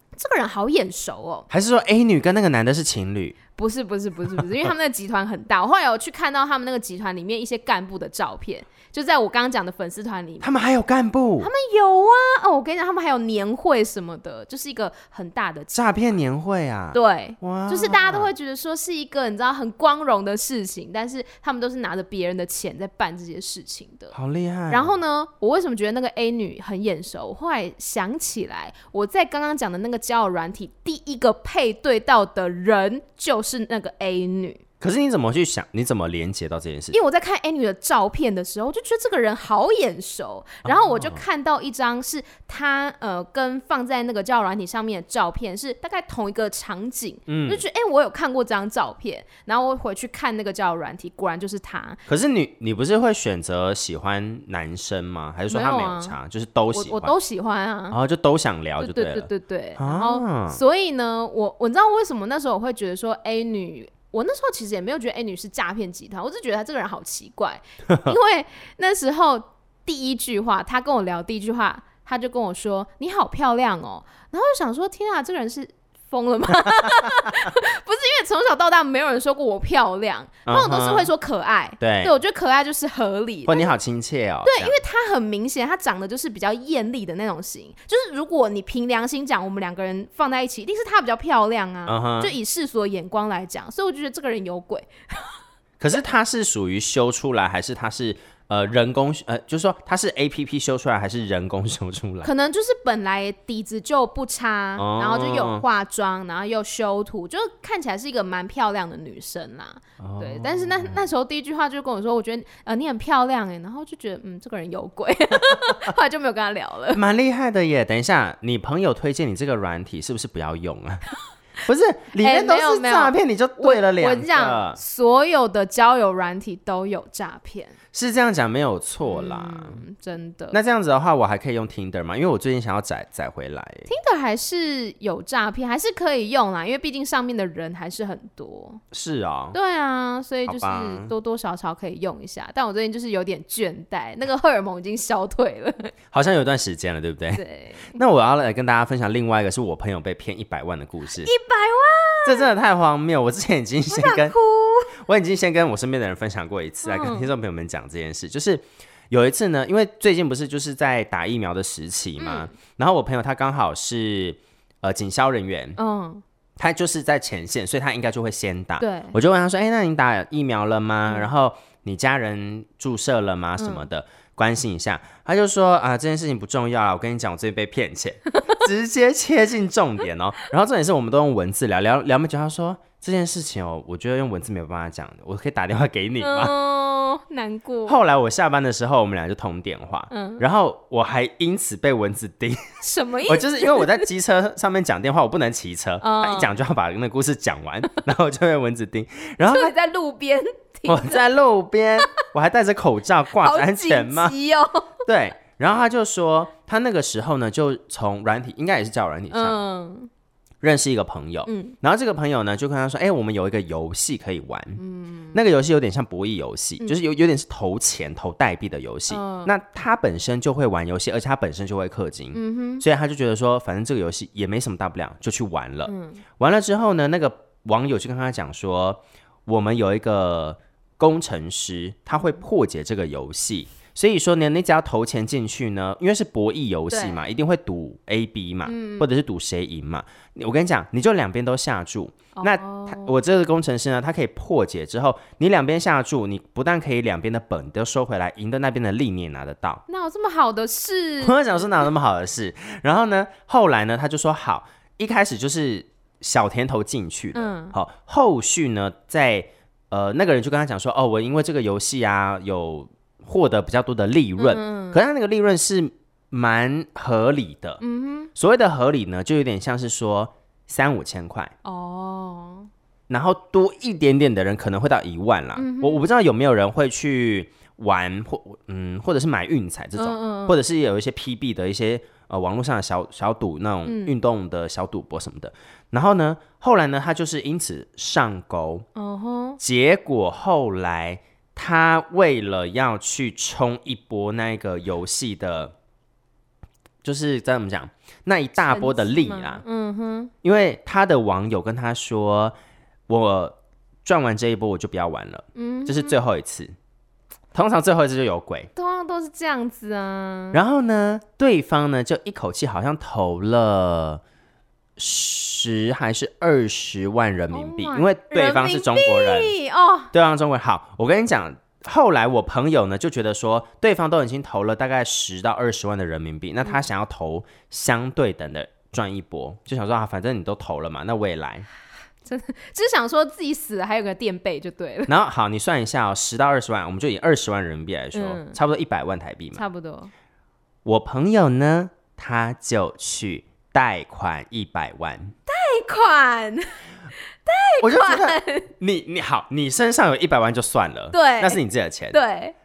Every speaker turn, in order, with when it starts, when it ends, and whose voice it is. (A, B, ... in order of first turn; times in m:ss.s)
0:00.2-0:01.5 A
0:01.5-0:03.4 B
0:03.6-0:10.5 A
0:04.4-0:04.7 B
0:10.4-0:11.5 B
0:11.4-0:15.8 A
0:15.7-0:18.3 B
0:16.9-0:24.2 A
0:24.1-0:24.9 B
0:24.7-0:34.6 A
0:34.8-0:37.0 B
0:36.9-0:52.0 A
0:40.6-0:41.2 B
0:47.3-0:47.6 B
0:52.1-0:57.1 B
0:55.5-0:56.2 A
0:56.7-0:58.0 A
0:57.9-1:00.6 B
0:58.8-1:23.7 A
1:07.9-1:08.2 B
1:17.0-1:17.5 B
1:20.4-1:21.1 B
1:21.8-1:22.1 B
1:23.5-1:24.8 B
1:24.4-1:35.3 A
1:31.9-1:32.3 B
1:35.8-1:42.3 B
1:42.2-1:57.0 A
1:44.8-1:45.6 B
1:50.0-1:51.0 B
1:56.9-2:01.1 B
2:01.6-2:04.8 B
2:02.2-2:07.8 A
2:07.9-2:09.8 B
2:09.0-2:10.6 A
2:10.5-2:13.9 B
2:13.9-2:18.8 A
2:18.9-2:19.6 B
2:19.5-2:25.9 A
2:20.5-2:21.1 B
2:26.1-2:27.4 B
2:27.4-2:28.0 A
2:27.9-2:31.3 B
2:31.2-2:32.5 A
2:32.2-2:34.3 B
2:33.9-2:35.0 A
2:35.0-2:45.8 B
2:36.8-2:37.3 A
2:42.2-2:42.5 A
2:45.8-2:46.2 A
2:46.6-3:06.5 B
2:48.8-2:49.2 A
2:53.6-2:53.9 A
3:06.2-3:08.0 A
3:07.9-3:12.6 B
3:10.1-3:10.4 A
3:12.8-3:14.1 A
3:13.2-3:19.7 B
3:16.0-3:16.5 A
3:19.4-3:21.2 A
3:20.8-3:24.3 B
3:23.4-3:25.0 A
3:25.0-3:29.6 B
3:29.3-3:30.1 A
3:30.6-3:34.8 B
3:31.4-3:31.7 A
3:34.8-3:35.4 A
3:35.3-4:09.8 B
3:39.1-3:39.5 A
3:42.3-3:42.8 A
3:45.8-3:46.2 A
3:56.9-3:57.2 A
3:58.6-3:59.1 A
4:02.3-4:03.2 A
4:09.9-4:11.8 A
4:11.2-4:27.8 B
4:17.3-4:17.7 A
4:24.4-4:25.0 A
4:27.8-4:28.3 A
4:28.3-4:31.5 B
4:31.6-4:32.7 A
4:33.1-4:48.9 B
4:35.6-4:36.0 A
4:40.0-4:40.6 A
4:43.8-4:44.1 A
4:49.0-4:49.6 A
4:49.6-4:55.7 B
4:57.0-4:59.6 B
4:58.6-5:00.3 A
5:00.4-5:02.5 B
5:03.1-5:06.7 B
5:05.6-5:06.2 A
5:07.5-5:08.7 B
5:08.8-5:10.6 A
5:10.5-5:14.2 B
5:15.0-5:19.5 B
5:17.5-5:20.1 A
5:20.1-5:31.7 B
5:32.2-5:35.1 A
5:35.1-5:39.6 B
5:38.1-5:38.6 A
5:39.5-5:40.1 A
5:40.8-5:45.3 B
5:45.5-5:46.7 A
5:47.4-5:48.7 A
5:47.8-5:52.2 B
5:51.1-5:51.6 A
5:52.1-5:52.5 A